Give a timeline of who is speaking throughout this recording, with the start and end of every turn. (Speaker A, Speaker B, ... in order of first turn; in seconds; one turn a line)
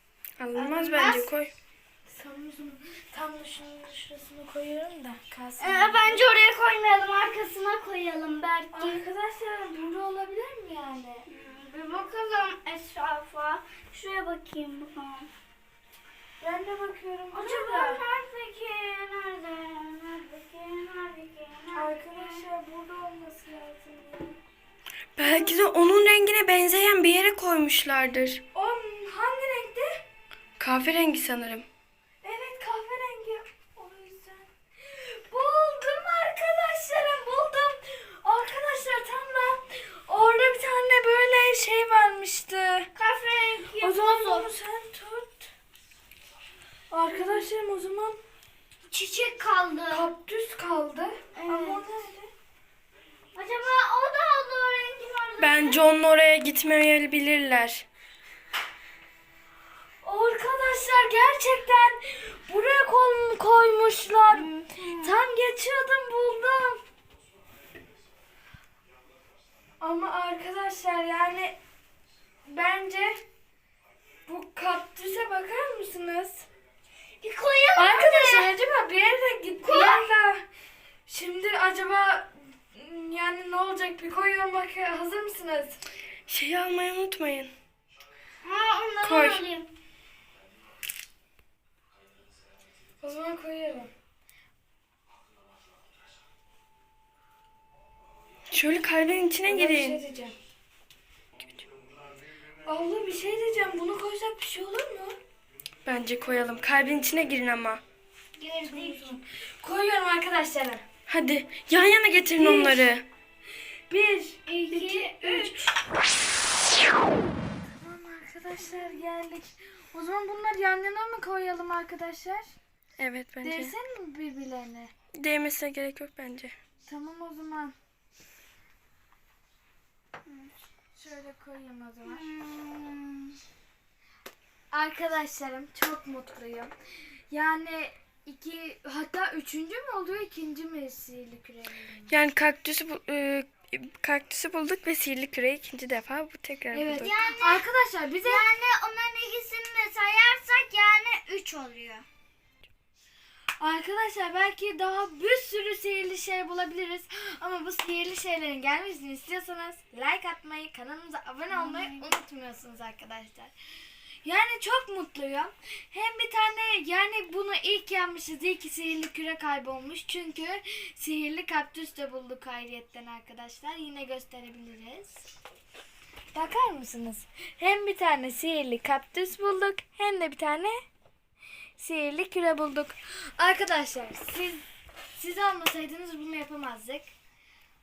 Speaker A: 0.4-1.5
Speaker B: 0.5-1.1
Speaker C: 0.7-1.3
Speaker B: 2.1-6.2
Speaker C: 5.6-9.0
Speaker B: 8.7-11.2
Speaker C: 11.3-15.3
Speaker B: 16.4-18.0
Speaker C: 17.3-22.4
Speaker B: 21.7-24.4
Speaker A: 25.1-28.4
Speaker B: 25.2-25.6
Speaker B: 28.5-30.0
Speaker A: 30.6-31.7
Speaker B: 32.2-42.9
Speaker C: 43.0-44.5
Speaker B: 43.8-45.5
Speaker B: 46.9-48.2
Speaker C: 48.9-50.1
Speaker B: 49.9-52.3
Speaker C: 51.3-51.9
Speaker C: 53.3-55.8
Speaker A: 55.4-57.8
Speaker B: 60.0-64.5
Speaker C: 64.3-65.1
Speaker B: 65.0-66.8
Speaker B: 69.8-71.6
Speaker B: 72.5-73.2
Speaker B: 74.2-76.4
Speaker C: 77.2-78.5
Speaker B: 77.8-80.4
Speaker C: 79.6-80.1
Speaker B: 81.1-85.8
Speaker A: 86.3-87.5
Speaker C: 88.4-89.7
Speaker A: 89.0-89.4
Speaker B: 93.0-93.9
Speaker A: 98.5-100.0
Speaker B: 99.4-100.3
Speaker B: 102.6-105.2
Speaker A: 105.8-107.8
Speaker C: 108.4-109.2
Speaker B: 108.6-110.8
Speaker A: 111.1-113.1
Speaker B: 112.3-112.9
Speaker B: 113.9-115.6
Speaker C: 114.5-115.7
Speaker B: 117.8-122.5
Speaker A: 123.0-123.8
Speaker B: 123.4-124.9
Speaker A: 125.2-126.6
Speaker B: 126.8-127.8
Speaker B: 130.9-132.2
Speaker C: 132.0-133.4
Speaker B: 134.7-136.7
Speaker B: 137.3-142.1
Speaker A: 142.1-147.1
Speaker B: 146.7-148.5
Speaker C: 146.9-147.6
Speaker C: 148.2-152.0
Speaker B: 153.6-163.5
Speaker C: 161.5-162.1
Speaker B: 164.2-175.2
Speaker B: 176.3-180.8
Speaker B: 181.8-184.6
Speaker B: 185.2-187.1